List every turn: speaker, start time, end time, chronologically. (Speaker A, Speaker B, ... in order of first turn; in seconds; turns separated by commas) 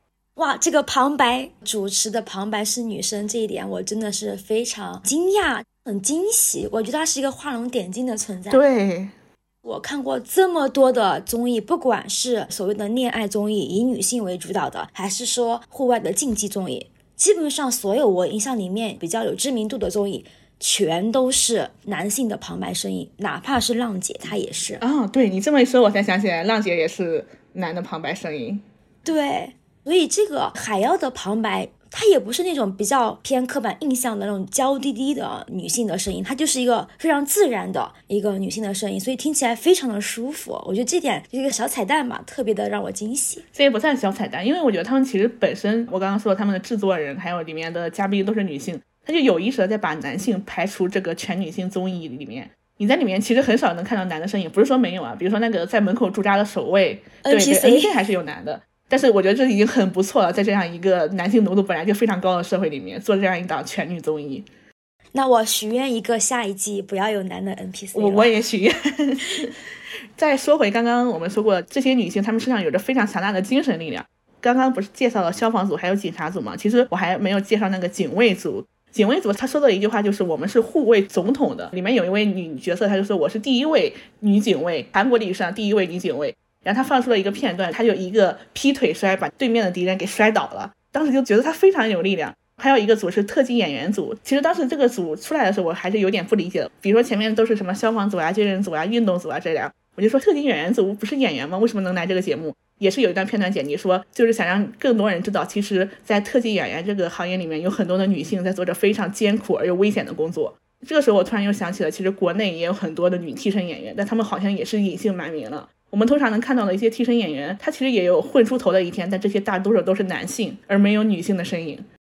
Speaker A: 0.4-8.6, Speaker B: 8.5-9.1, Speaker A: 9.6-24.8, Speaker B: 24.8-28.6, Speaker A: 29.1-43.5, Speaker B: 43.5-64.5, Speaker A: 57.2-58.0, Speaker A: 65.1-68.3, Speaker B: 67.9-69.5, Speaker B: 70.2-121.9